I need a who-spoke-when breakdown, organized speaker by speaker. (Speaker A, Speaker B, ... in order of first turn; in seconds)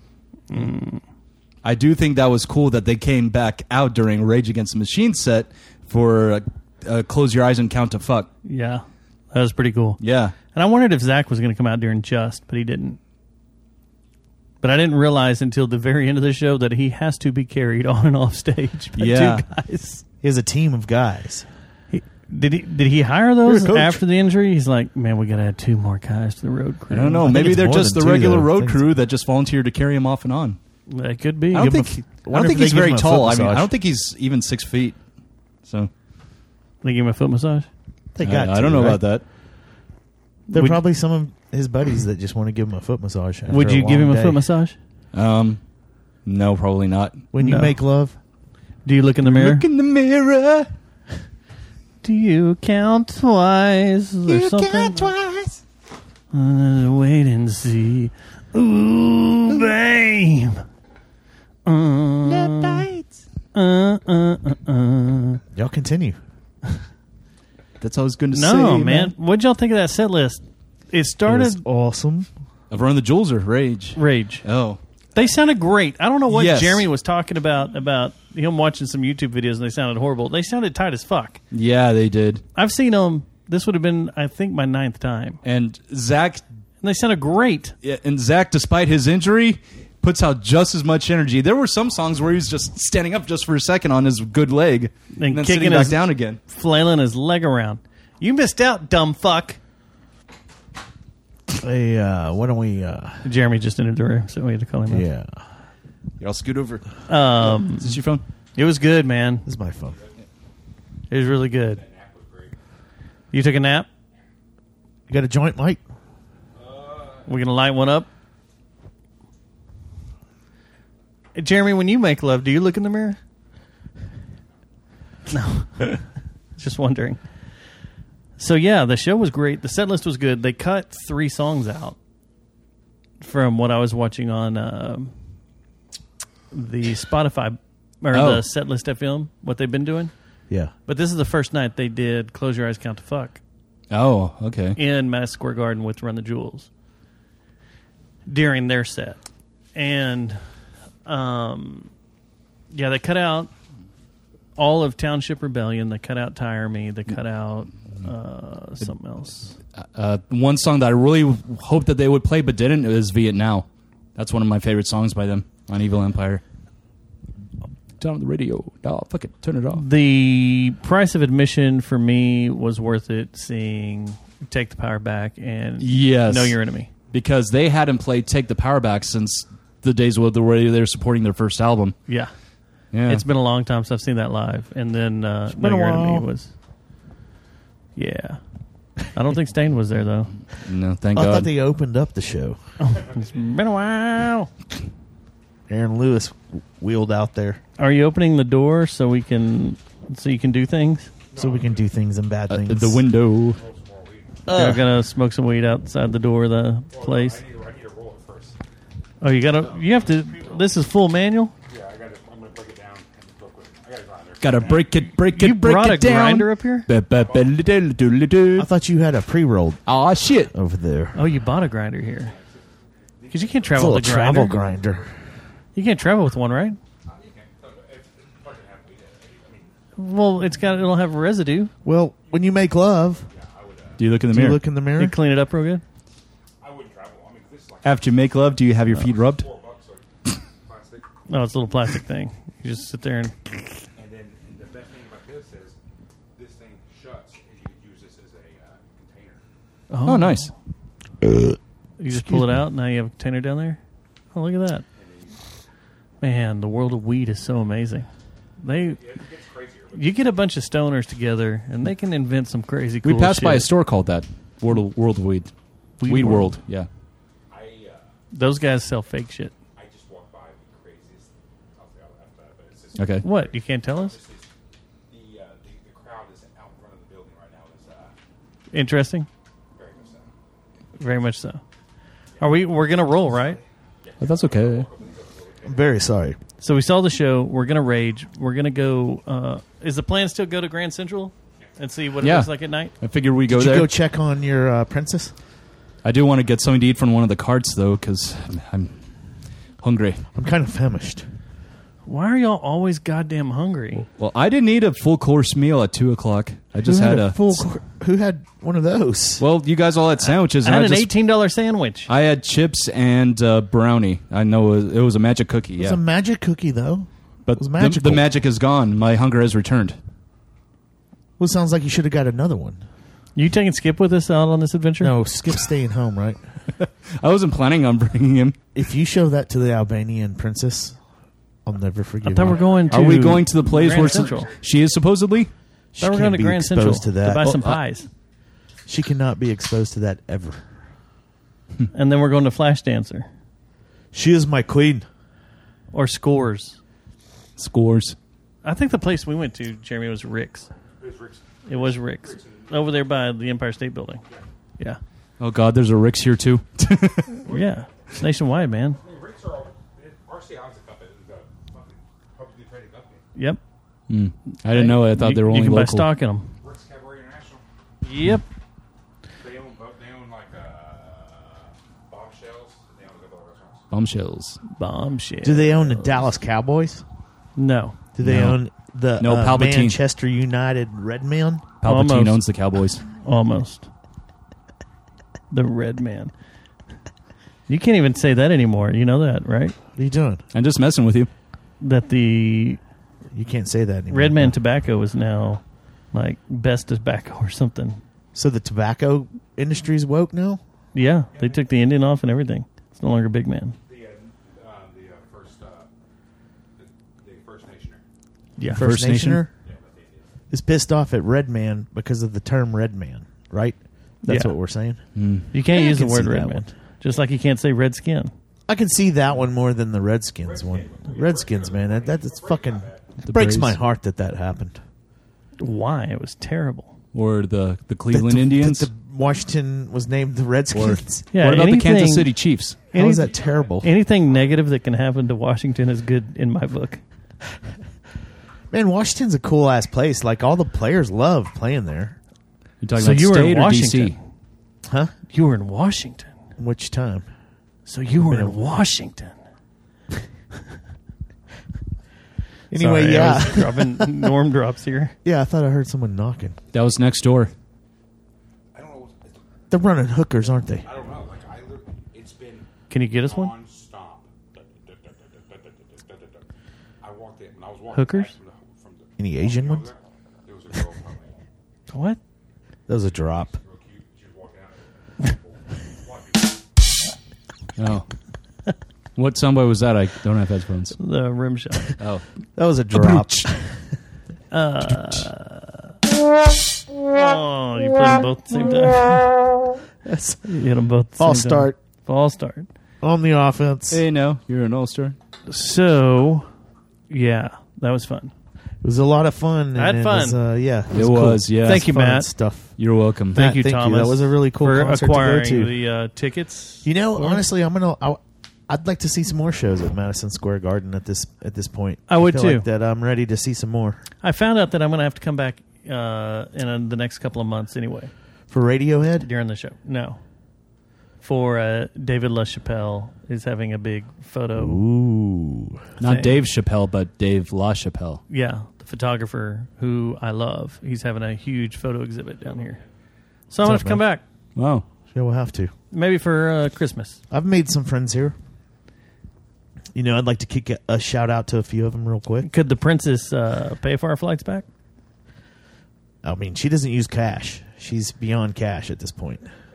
Speaker A: 0.5-1.0, 8.4-10.0, 10.5-13.0, 14.6-20.0, 21.9-27.4, 30.9-31.8, 36.8-37.7, 40.5-40.8, 43.5-44.8, 47.4-47.8, 48.9-49.7, 52.0-55.1, 56.3-60.6, 61.7-62.9, 63.5-65.4, 68.3-71.6, 74.0-74.5, 75.1-81.4, 82.5-85.4, 86.8-87.8, 95.1-99.6, 103.2-105.1, 107.1-108.0, 108.5-109.5, 111.1-111.8, 113.3-113.9, 117.3-118.1, 121.3-123.2, 125.3-127.2, 128.4-132.0, 133.2-135.1, 136.5-140.1, 140.9-143.4, 144.8-146.7, 148.3-149.2, 149.7-150.4, 151.1-151.9, 152.7-153.5, 154.6-159.6, 169.7-176.9, 182.1-182.3, 183.1-186.5, 187.9-188.4, 189.0-190.3, 192.8-194.5, 197.8-201.1, 204.5-207.4, 209.2-211.5, 215.3-216.9, 221.1-222.3, 223.3-224.6, 225.7-226.8, 230.0-231.7, 235.0-235.8, 241.3-243.4, 249.9-250.5, 252.0-253.8, 254.3-254.8, 256.2-258.1, 258.6-259.0, 259.9-263.7, 266.0-266.6, 268.3-269.6, 273.2-274.2, 278.7-279.3, 281.0-281.6, 282.4-283.6, 286.6-292.9, 302.1-304.1, 310.6-312.1, 323.4-325.1, 332.2-334.5, 336.0-338.1, 341.9-343.3, 345.9-346.8, 348.6-350.7, 351.6-354.2, 357.5-359.0, 363.4-363.6, 364.6-366.5, 368.0-368.4, 374.7-376.3, 377.6-378.0, 381.8-382.4, 383.1-383.9, 385.5-386.3, 387.7-389.7, 391.8-392.8, 394.1-398.0, 400.9-403.8, 408.6-408.8, 414.2-414.6, 415.5-418.3, 425.6-426.9, 431.3-432.4, 432.9-437.0, 442.9-444.2, 445.3-446.3, 447.9-449.4, 452.7-455.1, 462.9-463.5, 467.9-468.3, 471.9-472.2, 481.0-481.9, 484.5-485.9, 487.1-489.4, 490.4-492.7, 495.5-496.5, 497.1-498.3, 499.8-500.4, 501.6-502.3, 503.3-507.4, 512.1-512.7, 514.2-518.1, 519.2-520.2, 521.2-524.8, 526.0-526.4, 528.3-532.8, 533.5-534.2, 535.9-537.2, 542.4-544.6
Speaker B: 1.6-8.3, 10.0-10.3, 18.9-19.4, 23.4-24.0, 26.9-30.6, 31.5-35.0, 35.6-35.9, 38.2-39.2, 45.1-45.6, 46.3-47.2, 49.2-50.7, 67.8-69.1, 72.7-74.8, 76.3-76.9, 81.5-82.4, 85.4-86.5, 87.8-96.4, 106.2-106.9, 107.6-108.2, 138.1-138.4, 143.9-144.8, 159.8-166.4, 168.0-169.8, 175.8-176.6, 177.1-182.0, 182.9-183.2, 190.5-191.5, 202.5-203.6, 214.4-218.7, 219.9-220.5, 234.0-234.6, 237.8-239.4, 250.1-250.5, 263.0-265.5, 266.0-266.9, 273.0-273.2, 284.2-284.9, 292.2-293.9, 296.0-298.9, 299.8-300.2, 304.2-307.6, 309.4-311.1, 312.1-316.0, 317.4-320.0, 326.7-328.6, 332.9-335.5, 337.4-337.8, 347.6-348.2, 355.4-357.4, 364.1-366.1, 373.9-374.6, 378.2-378.6, 379.2-380.0, 381.8-383.0, 390.5-391.3, 408.7-409.4, 415.1-415.5, 423.2-423.8, 427.1-428.9, 430.7-432.8, 442.8-444.2, 456.7-457.5, 477.8-478.1, 479.1-481.0, 482.0-482.2, 482.9-483.2, 493.9-495.2, 500.9-501.9, 502.8-503.4, 526.0-528.2, 534.6-534.9
Speaker C: 20.2-21.5, 27.2-28.8, 31.6-33.7, 38.1-39.0, 40.5-44.5, 47.3-48.2, 54.3-55.6, 62.3-63.0, 65.5-66.2, 71.3-72.3, 101.5-103.2, 104.9-105.4, 109.5-110.0, 115.1-115.8, 185.5-186.3, 191.1-192.6, 195.7-197.6, 201.4-203.0, 204.4-204.9, 218.6-219.8, 220.5-221.2, 223.7-225.1, 231.8-233.3, 234.3-235.2, 285.6-286.4, 293.5-295.3, 300.4-301.2, 306.8-309.4, 315.8-318.2, 321.4-322.8, 325.0-326.4, 328.7-331.0, 331.6-332.7, 335.9-337.6, 338.9-340.6, 344.1-345.1, 375.4-377.0, 378.1-381.7, 389.9-390.4, 393.3-394.6, 398.4-400.6, 408.7-409.5, 410.5-415.0, 415.6-416.7, 418.7-424.8, 428.1-431.2, 432.9-433.9, 438.7-442.2, 444.9-445.1, 446.6-447.3, 448.2-448.6, 452.7-454.3, 455.2-456.6, 459.7-460.9, 469.2-469.9, 472.9-473.6, 482.6-483.8, 490.0-490.4, 491.2-491.8, 493.0-494.0, 498.8-502.7, 503.3-505.7, 506.8-514.0, 518.5-519.3, 524.6-525.8, 533.6-534.0, 535.1-535.7, 537.3-538.4, 539.9-542.5, 546.2-549.5
Speaker D: 111.7-112.5, 116.6-117.3, 201.3-201.9, 203.6-204.4, 206.9-208.6, 211.7-215.0, 217.2-217.6, 222.2-224.0, 227.1-229.7, 233.3-234.0, 236.6-238.2, 238.9-241.1, 243.9-245.8, 246.3-249.4, 255.0-255.4, 258.9-260.3, 267.5-268.1, 269.8-274.5, 275.1-278.1, 279.8-280.3, 282.4-285.9, 332.5-335.0, 351.0-352.9, 359.0-363.2, 366.6-367.6, 369.4-373.9, 401.3-401.6, 403.9-405.9, 406.8-408.0, 409.6-410.3, 420.4-423.1, 433.3-433.7, 458.7-459.4, 460.8-462.7, 463.2-466.4, 467.0-471.4, 473.6-476.5